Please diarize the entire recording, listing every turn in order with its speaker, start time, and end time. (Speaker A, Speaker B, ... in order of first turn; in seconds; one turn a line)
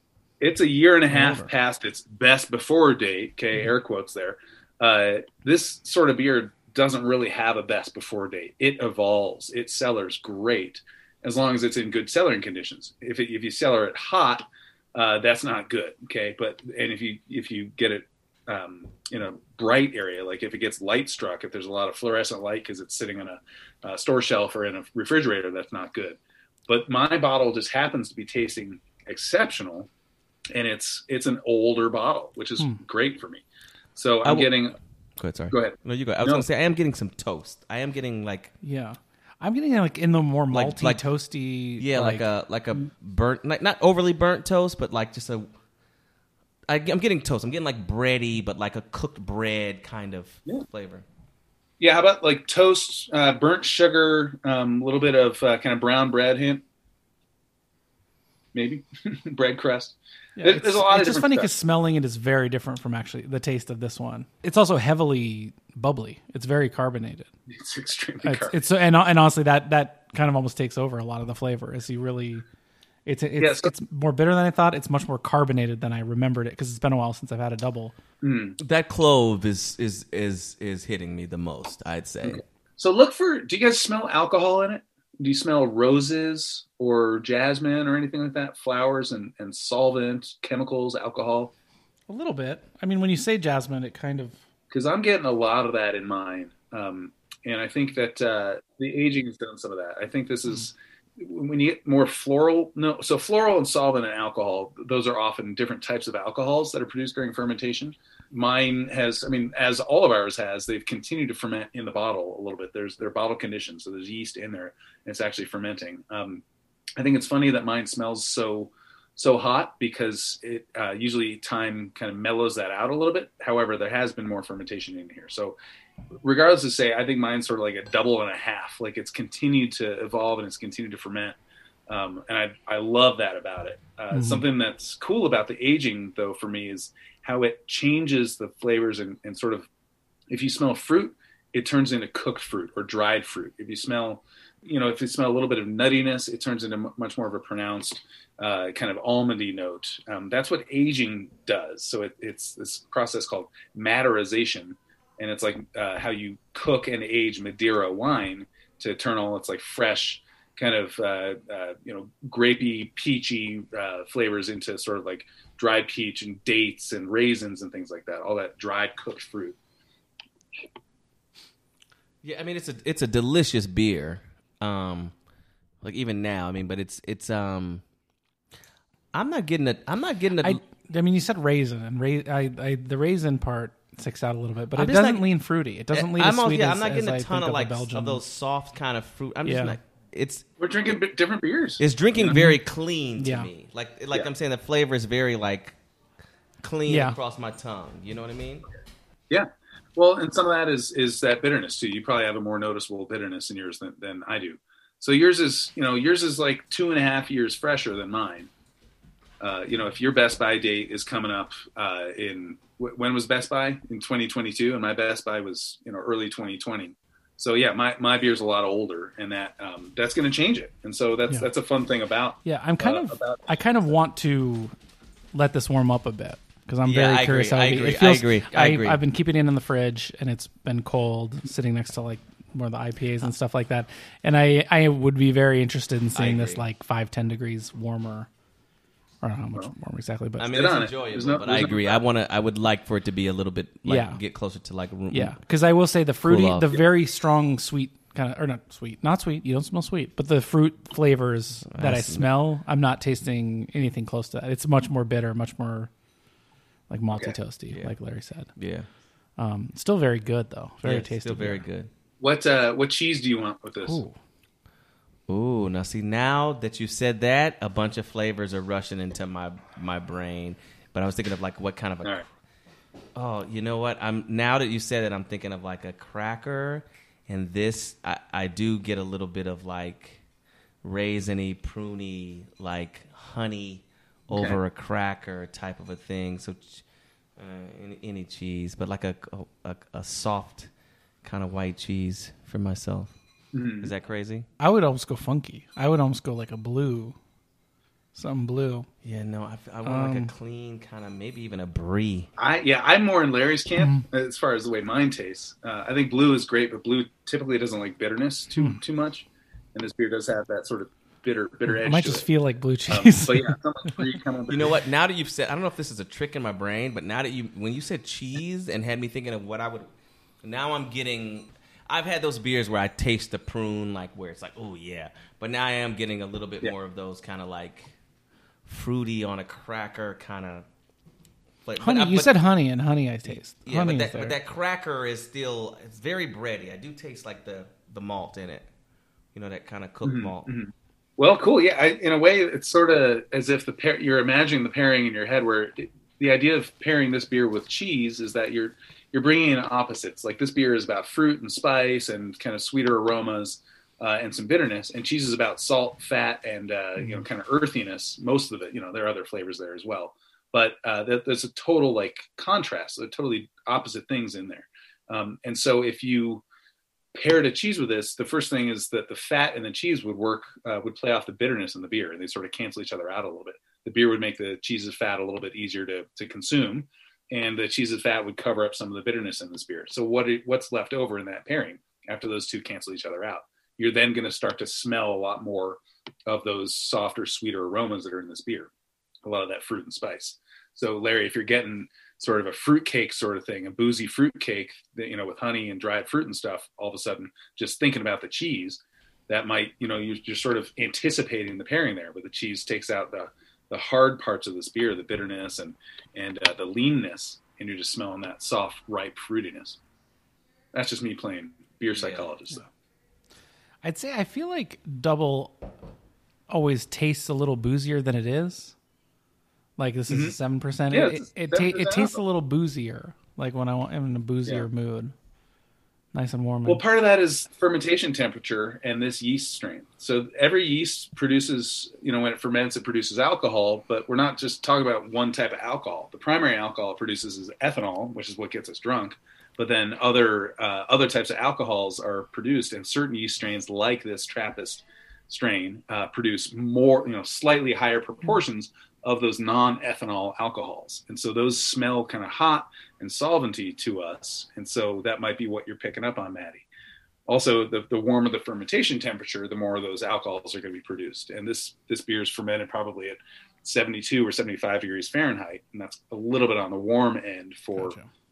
Speaker A: 0.4-29.9
Speaker B: 1.1-1.5
Speaker A: 30.5-33.4
Speaker A: 34.0-34.8
Speaker C: 34.2-34.5
Speaker C: 35.2-38.5
Speaker A: 35.5-36.5
Speaker B: 38.6-42.3
Speaker C: 40.5-41.0
Speaker C: 41.8-45.5
Speaker C: 46.7-51.0
Speaker A: 51.8-56.6
Speaker A: 58.5-61.5
Speaker B: 60.4-67.3
Speaker A: 67.5-68.6
Speaker B: 68.2-72.5
Speaker B: 73.1-77.9
Speaker A: 73.4-73.7
Speaker A: 78.2-78.6
Speaker C: 78.6-82.4
Speaker A: 82.2-91.5
Speaker B: 92.1-94.4
Speaker A: 94.7-116.4
Speaker A: 117.0-125.6
Speaker A: 126.2-139.7
Speaker B: 134.1-134.4
Speaker A: 140.3-169.6
Speaker C: 172.2-175.1
Speaker C: 175.8-177.8
Speaker C: 179.1-180.6
Speaker B: 180.4-188.2
Speaker C: 184.7-185.3
Speaker C: 185.9-190.4
Speaker B: 189.4-189.8
Speaker A: 190.6-192.4
Speaker C: 191.8-195.8
Speaker B: 192.3-192.6
Speaker B: 193.2-193.5
Speaker C: 196.6-198.7
Speaker B: 196.9-197.2
Speaker A: 199.3-208.5
Speaker A: 209.4-223.4
Speaker B: 222.4-224.7
Speaker B: 225.3-238.3
Speaker C: 226.8-229.0
Speaker C: 236.2-236.7
Speaker B: 239.2-240.5
Speaker C: 240.4-245.4
Speaker A: 240.5-242.1
Speaker B: 243.8-244.2
Speaker B: 245.1-255.9
Speaker C: 246.2-246.8
Speaker C: 251.7-252.3
Speaker B: 256.9-258.5
Speaker C: 258.6-258.9
Speaker B: 259.4-261.7
Speaker C: 260.8-261.9
Speaker A: 262.2-264.0
Speaker B: 263.8-264.2
Speaker C: 265.3-272.2
Speaker C: 273.1-280.2
Speaker C: 280.8-286.8
Speaker A: 284.3-284.6
Speaker C: 287.4-290.7
Speaker C: 291.2-293.1
Speaker A: 293.5-293.9
Speaker C: 293.8-294.5
Speaker B: 294.6-297.2
Speaker B: 298.1-298.9
Speaker C: 299.0-302.3
Speaker B: 299.8-300.3
Speaker A: 302.4-312.3
Speaker B: 303.8-304.0
Speaker B: 311.7-314.1
Speaker A: 312.9-314.8
Speaker C: 314.5-319.9
Speaker C: 320.4-327.9
Speaker C: 328.7-330.6
Speaker C: 331.6-332.4
Speaker B: 331.8-334.4
Speaker C: 333.3-338.7
Speaker C: 339.3-340.5
Speaker A: 340.0-366.4
Speaker B: 357.0-357.2
Speaker A: 367.1-388.7
Speaker A: 389.2-409.8
Speaker A: 410.7-412.7
Speaker C: 411.9-412.3
Speaker B: 413.8-415.6
Speaker B: 416.5-418.8
Speaker B: 419.8-425.1
Speaker A: 420.1-420.4
Speaker A: 420.9-422.2
Speaker B: 426.1-426.8
Speaker A: 426.6-456.7
Speaker A: 457.3-468.0
Speaker B: 467.8-468.1